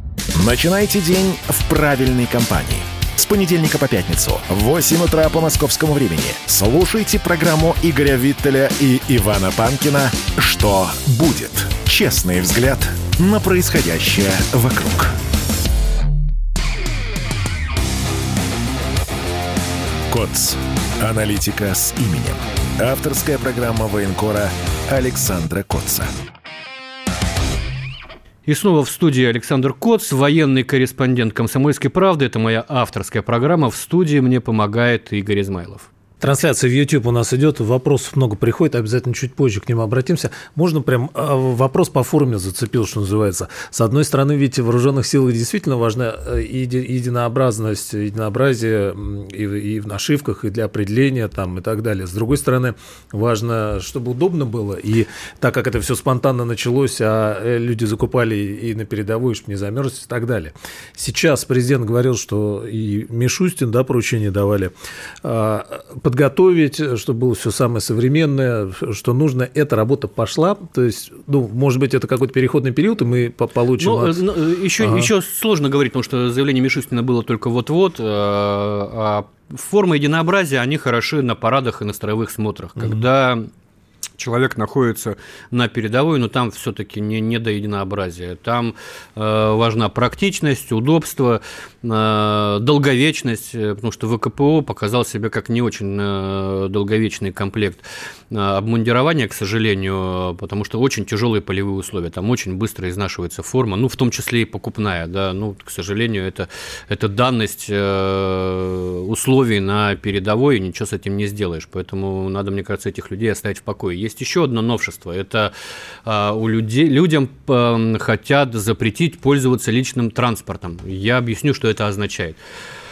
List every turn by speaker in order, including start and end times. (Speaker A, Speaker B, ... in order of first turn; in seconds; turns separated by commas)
Speaker A: 0.3-15.1, Speaker A: 20.1-26.1, Speaker B: 28.5-35.9, Speaker C: 36.2-64.7, Speaker C: 65.2-74.2, Speaker B: 73.8-83.5, Speaker C: 74.8-75.1, Speaker B: 84.2-115.5, Speaker B: 116.0-122.4